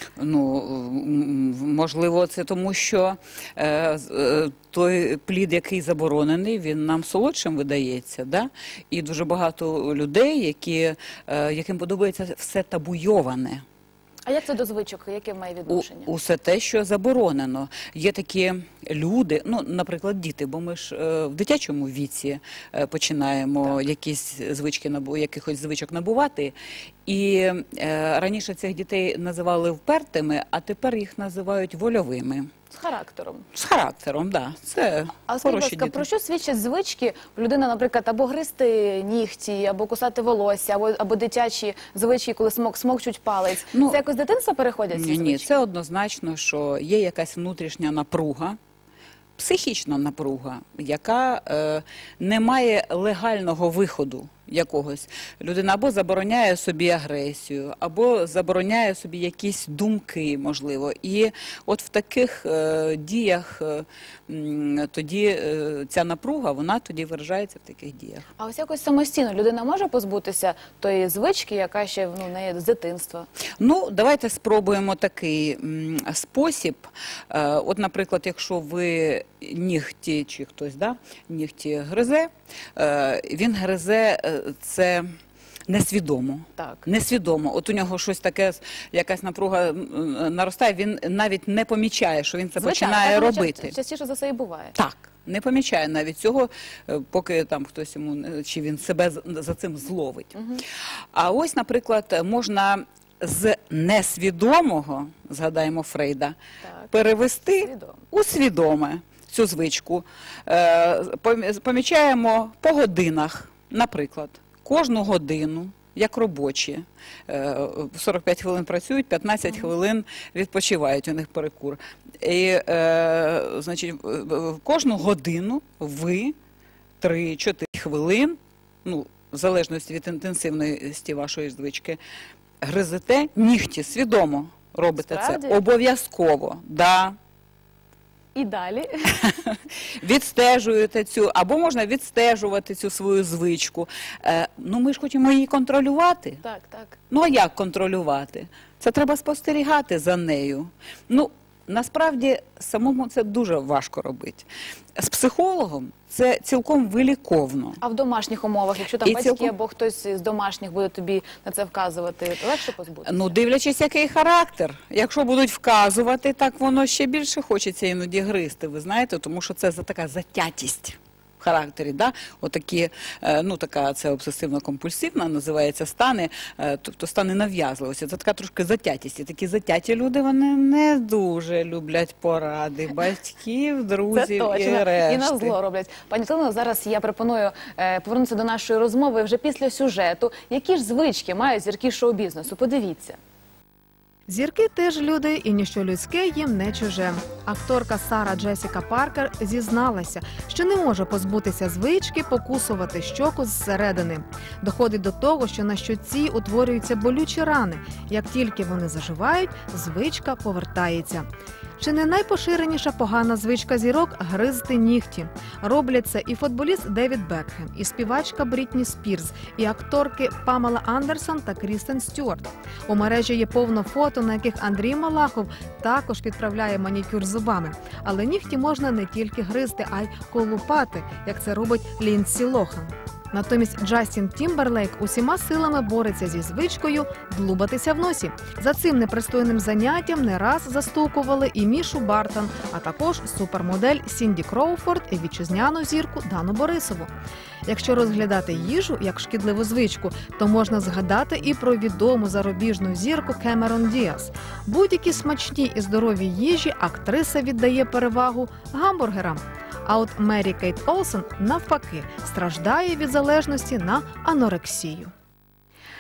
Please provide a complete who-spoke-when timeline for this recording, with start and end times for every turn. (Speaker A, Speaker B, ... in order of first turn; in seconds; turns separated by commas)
Speaker A: 0.2-13.6, Speaker B: 14.3-16.1, Speaker A: 15.7-26.5, Speaker A: 27.1-32.5, Speaker B: 32.7-33.5, Speaker A: 33.5-36.0, Speaker B: 35.3-45.6, Speaker A: 43.7-44.0, Speaker A: 44.9-48.6, Speaker A: 49.4-68.3, Speaker B: 68.4-73.3, Speaker A: 73.6-85.1, Speaker A: 85.7-93.8, Speaker B: 86.6-86.8, Speaker B: 92.6-94.8, Speaker A: 94.8-100.3, Speaker B: 100.4-100.6, Speaker A: 101.1-106.4, Speaker B: 106.6-106.9, Speaker A: 106.9-126.3, Speaker B: 107.6-108.0, Speaker A: 127.0-132.0, Speaker A: 132.6-137.2, Speaker B: 135.0-135.6, Speaker B: 138.3-139.2, Speaker A: 139.2-146.4, Speaker B: 146.4-147.0, Speaker A: 147.1-157.8, Speaker B: 157.8-163.3, Speaker A: 159.0-159.5, Speaker A: 163.1-185.6, Speaker B: 184.1-193.2, Speaker C: 194.3-211.3, Speaker C: 211.8-247.1, Speaker C: 247.7-265.1